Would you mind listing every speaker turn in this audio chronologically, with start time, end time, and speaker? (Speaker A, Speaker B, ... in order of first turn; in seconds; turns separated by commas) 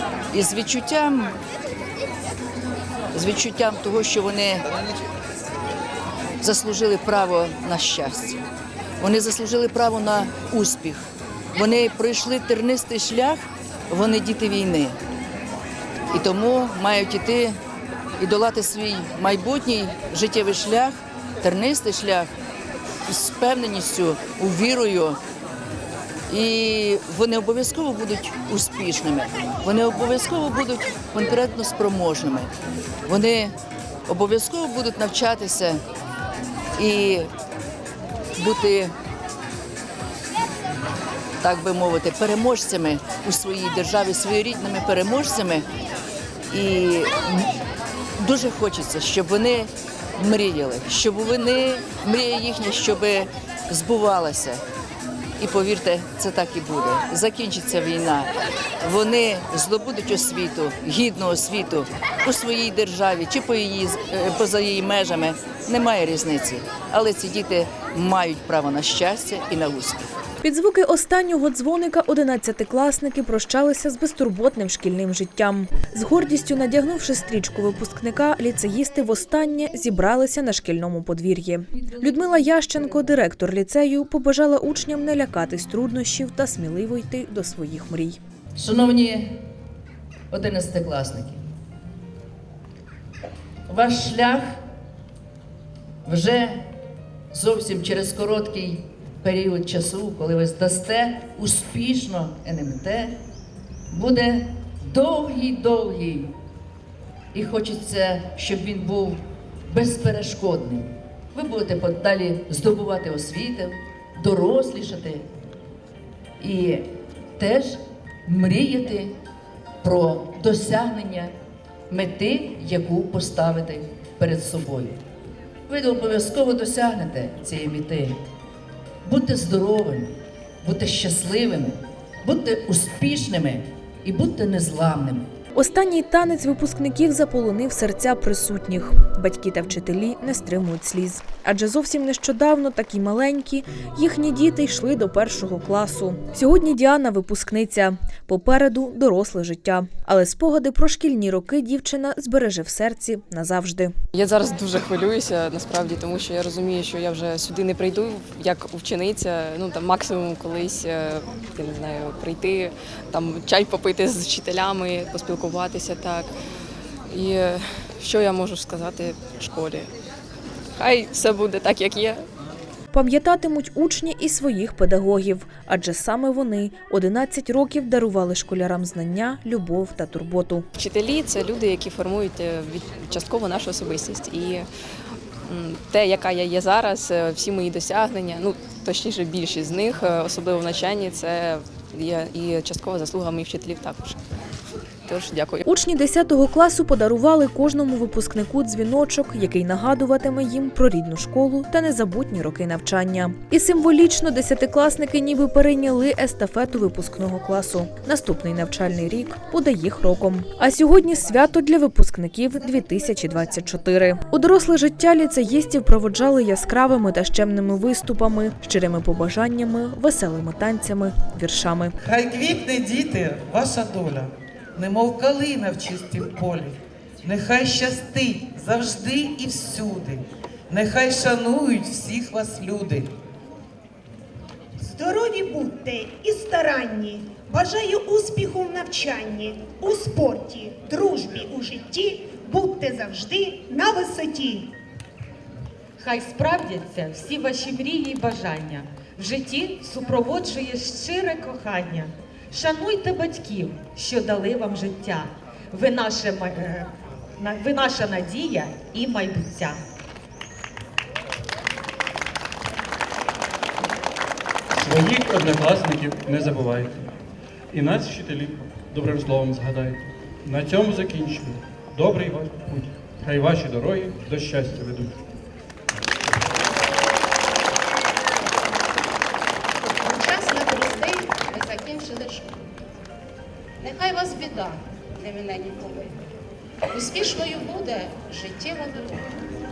Speaker A: 0.3-1.4, Speaker A: 3.1-4.6, Speaker A: 6.4-8.4, Speaker A: 9.0-15.0, Speaker A: 16.1-17.6, Speaker A: 18.2-22.3, Speaker A: 23.1-25.2, Speaker A: 26.3-32.5, Speaker A: 33.0-33.5, Speaker A: 34.1-35.8, Speaker A: 36.8-37.3, Speaker A: 38.4-38.9, Speaker A: 41.4-45.6, Speaker A: 46.5-47.5, Speaker A: 48.2-54.6, Speaker A: 55.4-70.0, Speaker B: 70.4-88.2, Speaker A: 88.5-89.4, Speaker A: 90.3-91.4, Speaker A: 93.7-94.6, Speaker A: 96.0-96.7, Speaker A: 97.3-103.2, Speaker A: 103.9-106.3, Speaker A: 107.3-115.2, Speaker A: 116.4-119.2, Speaker A: 119.8-121.3, Speaker A: 121.9-125.0, Speaker A: 125.7-128.2, Speaker A: 129.0-135.3, Speaker B: 135.6-153.9, Speaker C: 154.1-166.3, Speaker C: 167.1-169.9, Speaker C: 170.8-172.2, Speaker B: 172.9-180.7, Speaker C: 180.8-184.7, Speaker C: 185.4-194.2, Speaker C: 195.1-195.6, Speaker B: 195.6-221.9, Speaker D: 222.0-233.1, Speaker E: 234.8-244.7, Speaker F: 246.0-259.8, Speaker G: 264.8-267.1, Speaker G: 267.7-275.1, Speaker H: 280.0-282.5, Speaker H: 283.8-286.1, Speaker H: 286.9-289.3